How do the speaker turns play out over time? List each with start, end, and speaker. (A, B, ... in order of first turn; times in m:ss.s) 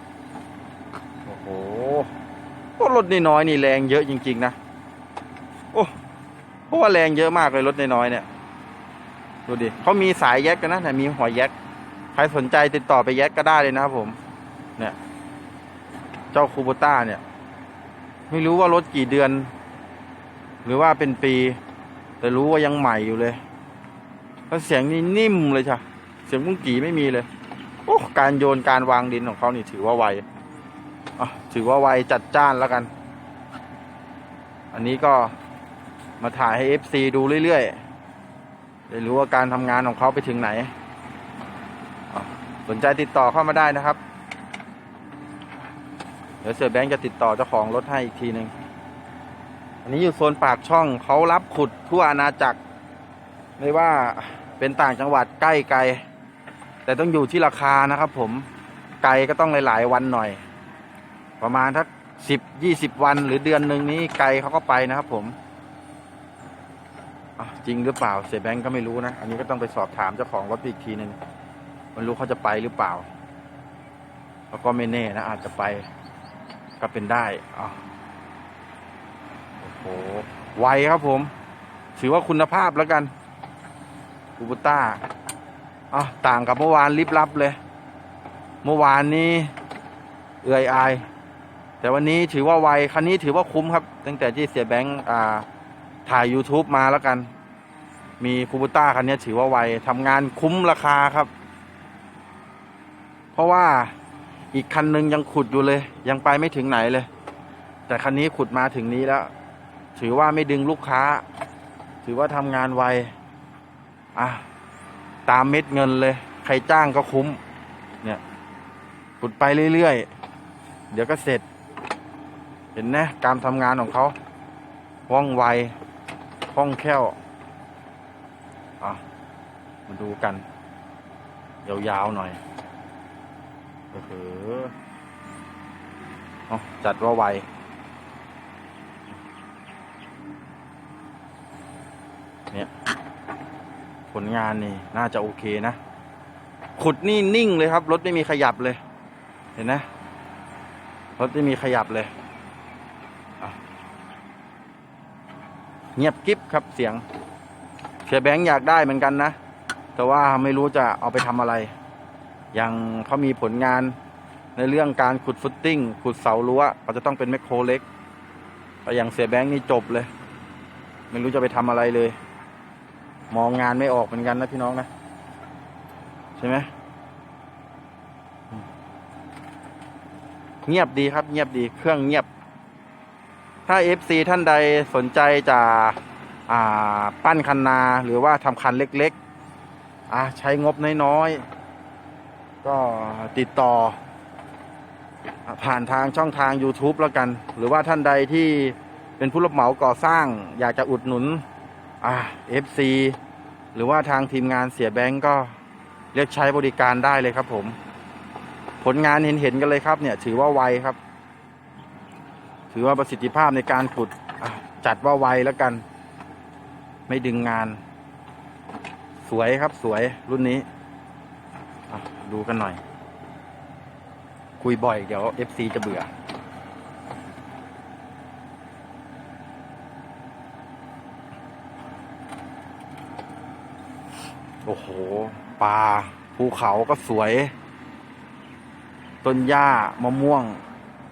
0:01.3-0:02.1 A
0:02.8-0:04.6 A
0:06.7-0:08.3 A
0:09.5-0:11.5 A
0:12.1-0:14.2 A
0:16.3-0:17.2 A
0:18.3-0:19.5 A
0:20.6-0:21.6 A
0:22.2-0:23.4 A
0:24.5-0:27.3 A
0:27.9-0:30.2 A
0:31.2-0:32.9 A
0:34.7-0:35.3 A
0:36.2-0:37.8 A
0:38.9-0:40.7 A
0:42.1-0:44.0 A
0:46.4-0:48.5 A
0:49.8-0:52.6 A
0:53.6-0:56.0 A
0:56.8-0:58.5 A
0:59.0-1:00.4 A
1:01.4-1:05.4 A
1:07.4-1:11.2 A
1:12.0-1:13.1 A
1:14.5-1:15.9 A
1:16.8-1:17.8 A
1:19.6-1:21.3 A
1:22.0-1:23.1 A
1:24.4-1:25.0 A
1:25.9-1:27.6 A
1:28.6-1:29.5 A
1:30.4-1:31.1 A
1:31.8-1:35.5 A
1:36.1-1:37.3 A
1:38.2-1:41.3 A
1:43.3-1:43.9 A
1:44.5-1:47.1 A
1:47.9-1:49.3 A
1:50.0-1:51.2 A
1:52.0-1:53.1 A
1:54.2-1:54.4 A
1:55.3-1:57.4 A
1:59.2-2:00.1 A
2:00.9-2:01.4 A
2:02.8-2:04.2 A
2:05.1-2:05.8 A
2:06.5-2:07.2 A
2:09.9-2:10.4 A
2:11.6-2:12.4 A
2:13.9-2:14.7 A
2:16.5-2:17.5 A
2:24.1-2:25.8 A
2:26.8-2:28.8 A
2:29.6-2:29.9 A
2:31.2-2:32.1 A
2:36.0-2:37.0 A
2:38.0-2:39.4 A
2:40.0-2:41.7 A
2:42.5-2:44.0 A
2:44.6-2:47.8 A
2:48.8-2:50.1 A
2:51.1-2:52.2 A
2:53.3-2:54.9 A
2:56.4-2:56.7 A
3:00.6-3:02.3 A
3:03.7-3:09.2 A
3:10.1-3:11.4 A
3:12.6-3:14.0 A
3:15.5-3:21.4 A
3:22.0-3:23.2 A
3:23.7-3:25.5 A
3:26.1-3:27.8 A
3:28.8-3:31.0 A
3:32.7-3:35.8 A
3:37.1-3:37.8 A
3:39.2-3:40.7 A
3:41.9-3:42.8 A
3:44.6-3:46.1 A
3:54.6-3:57.5 A
3:59.2-4:00.6 A